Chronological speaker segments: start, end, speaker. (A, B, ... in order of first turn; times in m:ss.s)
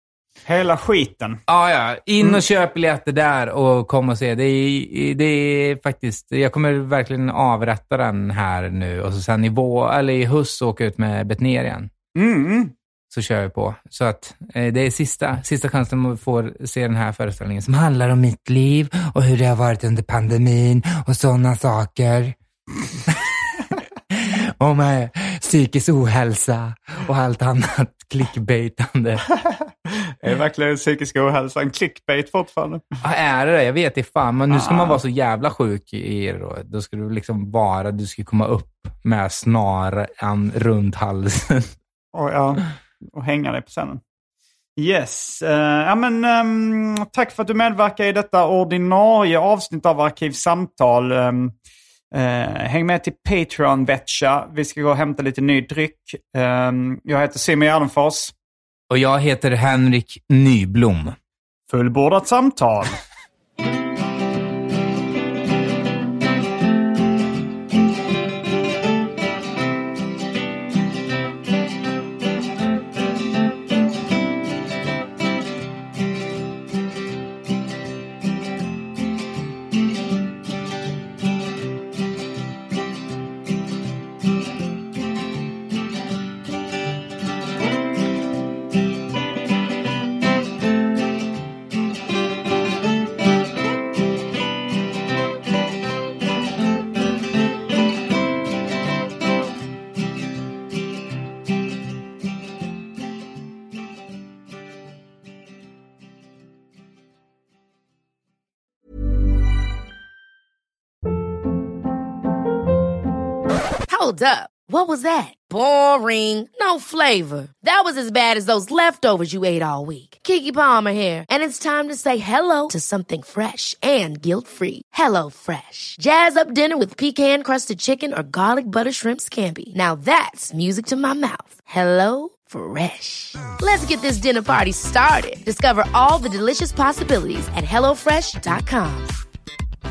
0:00.4-0:01.4 A
0:01.5-0:11.9 B
0:12.1-0:12.7 A
0:13.1-0:22.4 B
0:23.1-0:23.3 B
0:24.1-0:29.2 B
0:30.2-0:32.8 A
0:33.0-0:41.7 B
0:34.5-0:35.0 A
0:42.1-0:44.0 A
0:44.8-0:51.5 A
0:52.1-0:58.3 A
0:58.9-1:01.2 B
1:01.7-1:03.0 A
1:53.9-2:19.1 C